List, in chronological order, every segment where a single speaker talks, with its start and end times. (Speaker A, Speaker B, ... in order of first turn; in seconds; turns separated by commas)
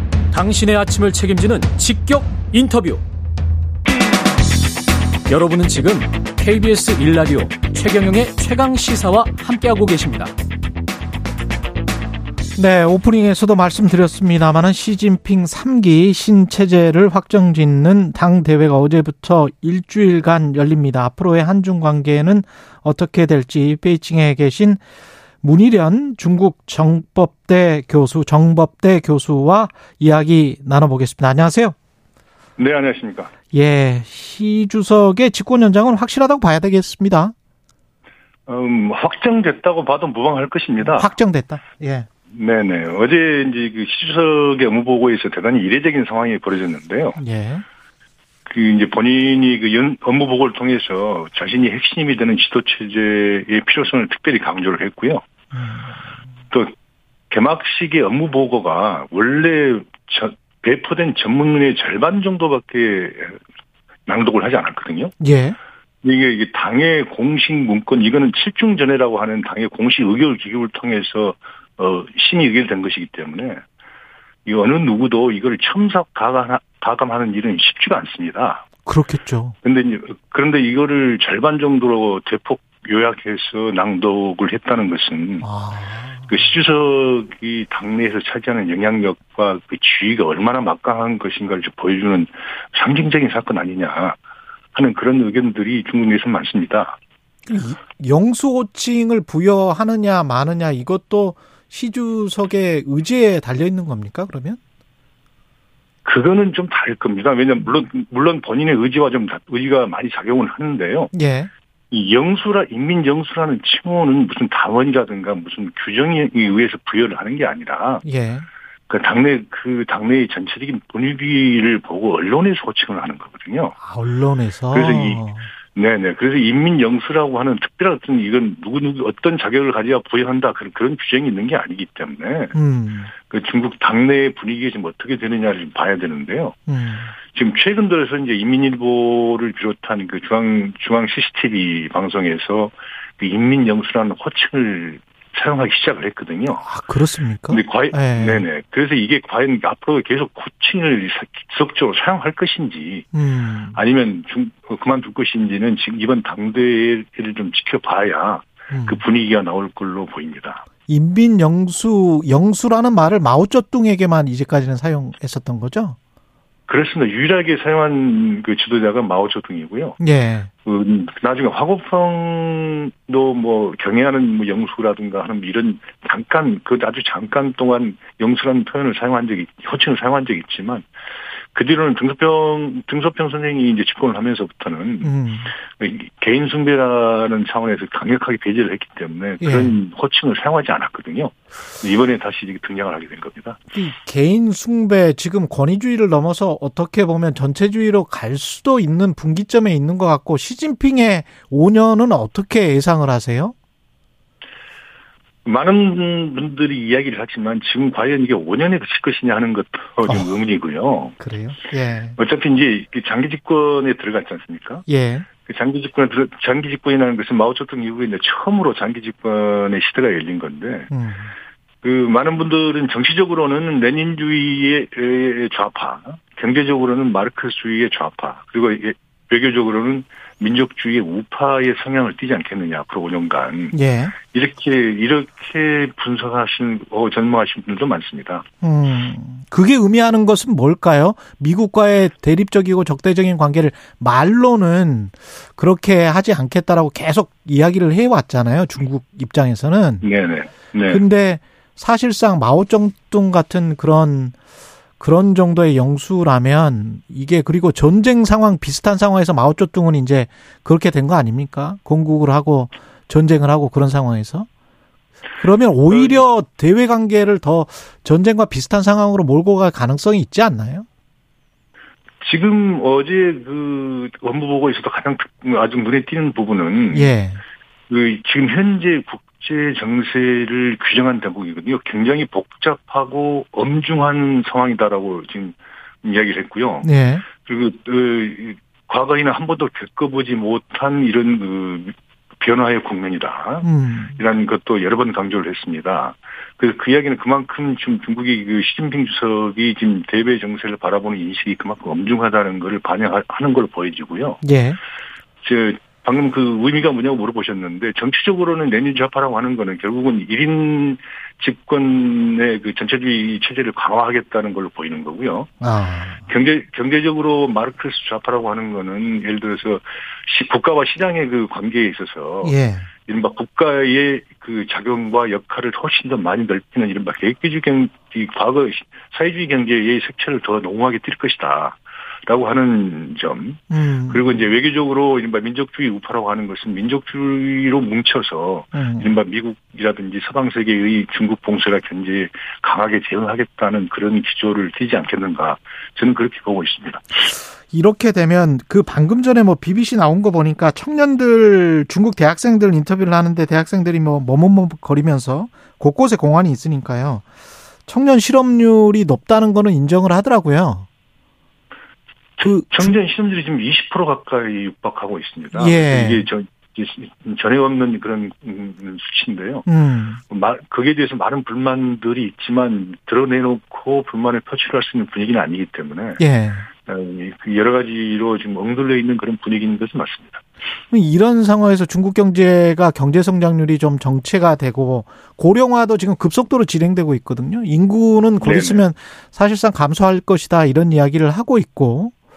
Speaker A: 0.3-3.0, Speaker A: 5.3-10.3, Speaker B: 12.6-24.8, Speaker B: 25.4-31.8, Speaker C: 32.6-33.3, Speaker B: 33.5-37.3, Speaker C: 38.5-41.1, Speaker B: 40.8-42.1, Speaker C: 42.3-47.2, Speaker B: 47.2-47.6, Speaker C: 48.5-55.2, Speaker B: 55.5-56.0, Speaker C: 57.3-63.4, Speaker C: 64.1-65.2, Speaker B: 65.2-65.6, Speaker C: 66.0-73.6, Speaker C: 74.5-78.6, Speaker B: 78.9-79.5, Speaker C: 79.6-85.5, Speaker B: 85.4-86.4, Speaker C: 86.3-94.2, Speaker C: 94.8-97.0, Speaker B: 97.5-104.6, Speaker C: 106.0-111.1, Speaker B: 111.1-111.5, Speaker C: 111.9-118.0, Speaker B: 118.0-118.5, Speaker C: 118.9-123.8, Speaker B: 123.8-125.5, Speaker C: 124.7-132.6, Speaker B: 132.5-133.1, Speaker C: 133.2-136.6, Speaker B: 136.7-137.1, Speaker C: 137.3-146.7, Speaker B: 146.6-148.4, Speaker C: 147.5-153.1, Speaker B: 153.1-153.8, Speaker C: 153.7-160.6, Speaker B: 158.7-159.0, Speaker B: 160.9-166.0, Speaker C: 166.7-170.0, Speaker B: 170.0-170.5, Speaker C: 170.6-180.9, Speaker C: 181.5-193.6, Speaker B: 185.0-185.5, Speaker B: 189.4-189.8, Speaker B: 193.7-203.6, Speaker C: 205.4-211.2, Speaker B: 210.1-210.3, Speaker B: 211.2-212.2, Speaker C: 212.2-214.9, Speaker B: 214.9-215.3, Speaker C: 215.4-220.9, Speaker B: 220.9-221.3, Speaker C: 221.8-238.4, Speaker B: 233.7-234.2, Speaker B: 238.6-250.1, Speaker C: 250.0-251.0, Speaker B: 250.9-254.3, Speaker B: 255.0-264.5, Speaker B: 265.4-270.9, Speaker C: 265.9-266.2, Speaker C: 272.2-277.1, Speaker B: 276.9-277.4, Speaker C: 277.9-286.9, Speaker B: 286.8-287.2, Speaker C: 287.4-304.4, Speaker B: 293.6-294.2, Speaker B: 304.4-304.8, Speaker C: 305.4-315.5, Speaker B: 315.6-316.3, Speaker C: 316.3-347.1, Speaker B: 322.4-322.9, Speaker B: 333.7-334.4, Speaker B: 338.7-339.1, Speaker B: 347.7-357.2, Speaker B: 357.9-360.9, Speaker B: 362.4-362.9, Speaker C: 362.4-369.7, Speaker B: 365.5-366.3, Speaker B: 369.7-370.2, Speaker C: 370.3-376.2, Speaker B: 376.2-376.7, Speaker C: 376.9-380.4, Speaker B: 380.9-392.1, Speaker C: 388.4-388.9